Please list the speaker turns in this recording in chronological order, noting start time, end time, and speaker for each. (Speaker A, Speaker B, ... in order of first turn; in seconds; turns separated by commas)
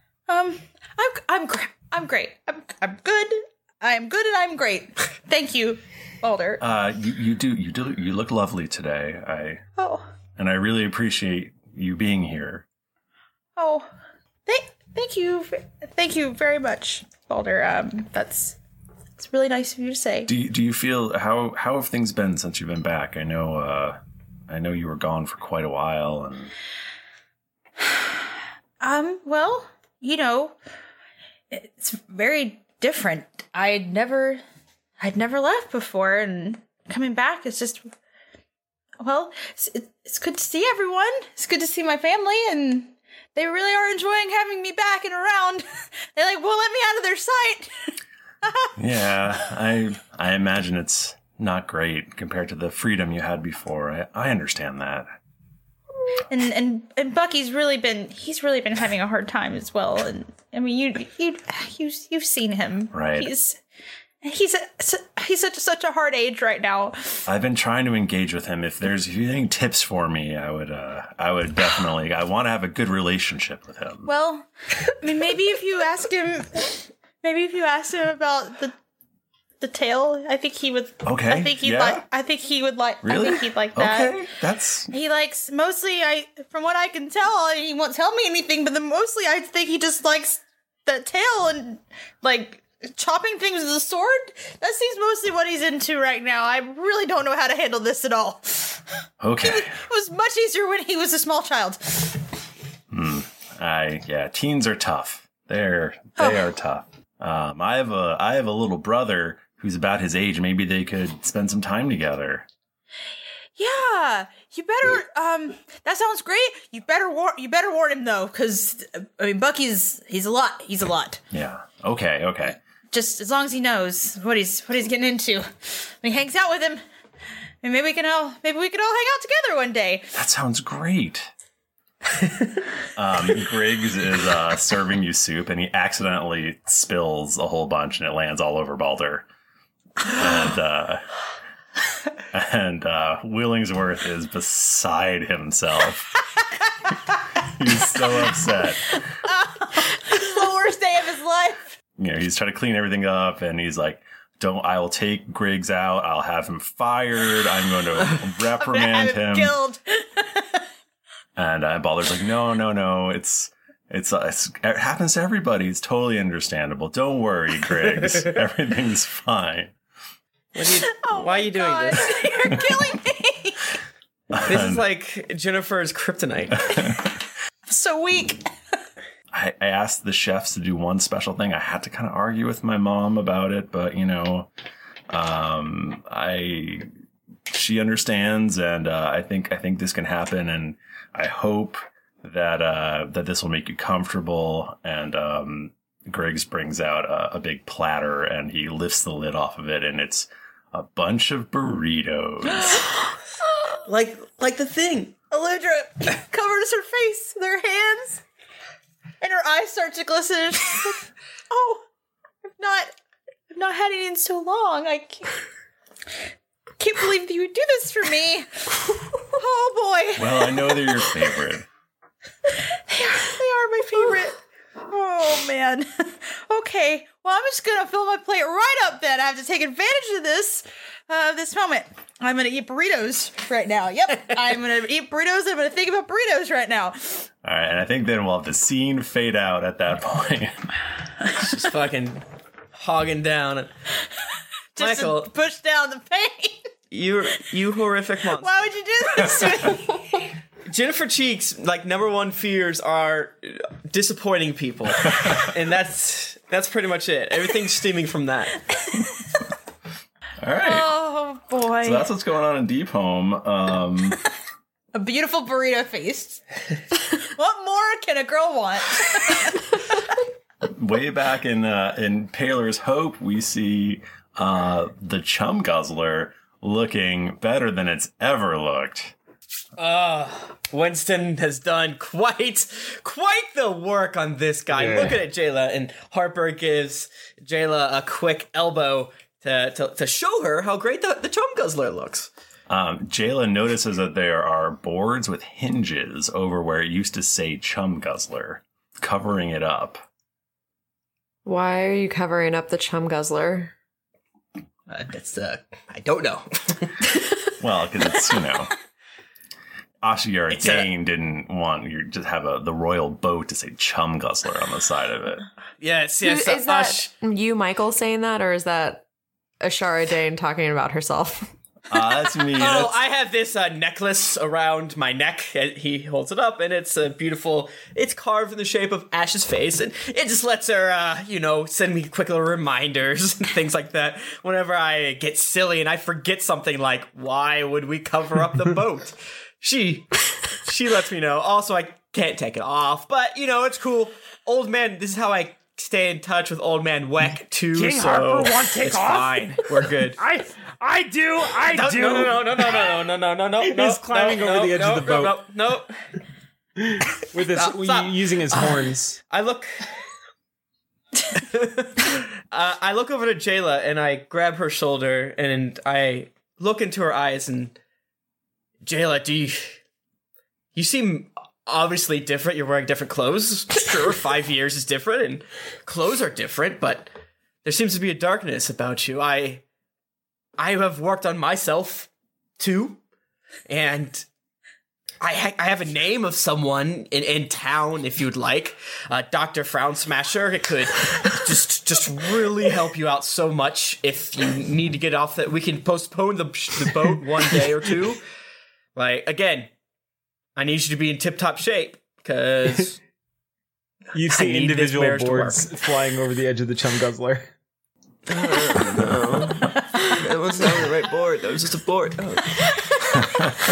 Speaker A: 0.3-6.6, Speaker B: 6.6-9.6, Speaker A: 9.8-10.1, Speaker B: 10.4-12.6, Speaker A: 13.6-13.9, Speaker A: 14.5-18.6, Speaker A: 19.2-20.3, Speaker B: 20.3-26.5, Speaker A: 28.8-30.6, Speaker A: 31.5-34.4, Speaker A: 35.0-37.9, Speaker A: 39.0-47.9, Speaker A: 48.4-48.7, Speaker B: 48.8-55.1, Speaker A: 56.3-63.6, Speaker B: 62.9-63.3, Speaker A: 64.2-67.2, Speaker B: 67.3-74.1, Speaker A: 74.0-74.5, Speaker A: 75.0-78.7, Speaker A: 79.6-84.2, Speaker B: 81.0-82.0, Speaker B: 83.0-84.9, Speaker A: 84.9-98.8, Speaker B: 99.2-99.7, Speaker A: 99.4-102.2, Speaker B: 102.9-112.5, Speaker A: 106.2-106.5, Speaker A: 113.5-121.2, Speaker B: 121.3-122.6, Speaker A: 122.9-126.8, Speaker A: 127.6-130.1, Speaker B: 130.1-131.3, Speaker B: 132.9-139.2, Speaker B: 140.1-141.0, Speaker B: 142.3-146.1, Speaker B: 147.6-149.0, Speaker A: 149.3-151.8, Speaker B: 152.0-159.6, Speaker A: 158.6-160.6, Speaker B: 161.4-169.7, Speaker C: 170.5-172.3, Speaker A: 170.6-173.7, Speaker B: 174.3-174.9, Speaker C: 174.4-176.7, Speaker B: 176.7-177.0, Speaker A: 177.7-178.5, Speaker B: 179.3-184.5, Speaker B: 185.1-186.9, Speaker B: 187.5-202.8, Speaker C: 203.8-205.2, Speaker A: 205.3-208.2, Speaker A: 209.2-211.8, Speaker A: 212.6-212.9, Speaker A: 213.5-215.4, Speaker A: 216.8-221.1, Speaker B: 220.2-221.6, Speaker A: 222.7-237.3, Speaker B: 237.4-240.6, Speaker C: 241.3-242.2, Speaker C: 242.7-243.7, Speaker C: 244.8-245.3, Speaker A: 244.8-246.7, Speaker C: 246.9-248.5, Speaker A: 248.4-250.3, Speaker C: 250.7-258.6, Speaker B: 255.1-255.4, Speaker B: 260.4-260.9, Speaker A: 260.6-262.1, Speaker B: 261.8-264.2, Speaker A: 264.9-266.4, Speaker A: 267.2-269.7, Speaker B: 270.6-279.1, Speaker C: 279.8-292.3, Speaker D: 284.7-285.2, Speaker B: 292.7-300.0, Speaker E: 301.4-303.7, Speaker C: 304.9-306.9, Speaker B: 307.6-308.7, Speaker B: 310.0-315.4, Speaker C: 310.5-310.9, Speaker C: 315.8-317.1, Speaker E: 316.2-319.0, Speaker E: 319.6-321.5, Speaker B: 321.9-322.9, Speaker C: 322.6-350.2, Speaker D: 347.7-352.9, Speaker C: 351.6-355.9, Speaker D: 353.6-355.4, Speaker D: 356.8-359.2, Speaker C: 357.5-359.8, Speaker C: 361.3-367.7, Speaker C: 368.8-369.8, Speaker C: 370.7-377.1, Speaker C: 377.6-379.6, Speaker C: 380.6-383.0, Speaker C: 383.7-384.2, Speaker C: 385.2-398.2, Speaker C: 398.9-399.7, Speaker C: 400.6-403.0, Speaker D: 404.1-407.5, Speaker C: 404.3-405.6, Speaker C: 408.3-412.7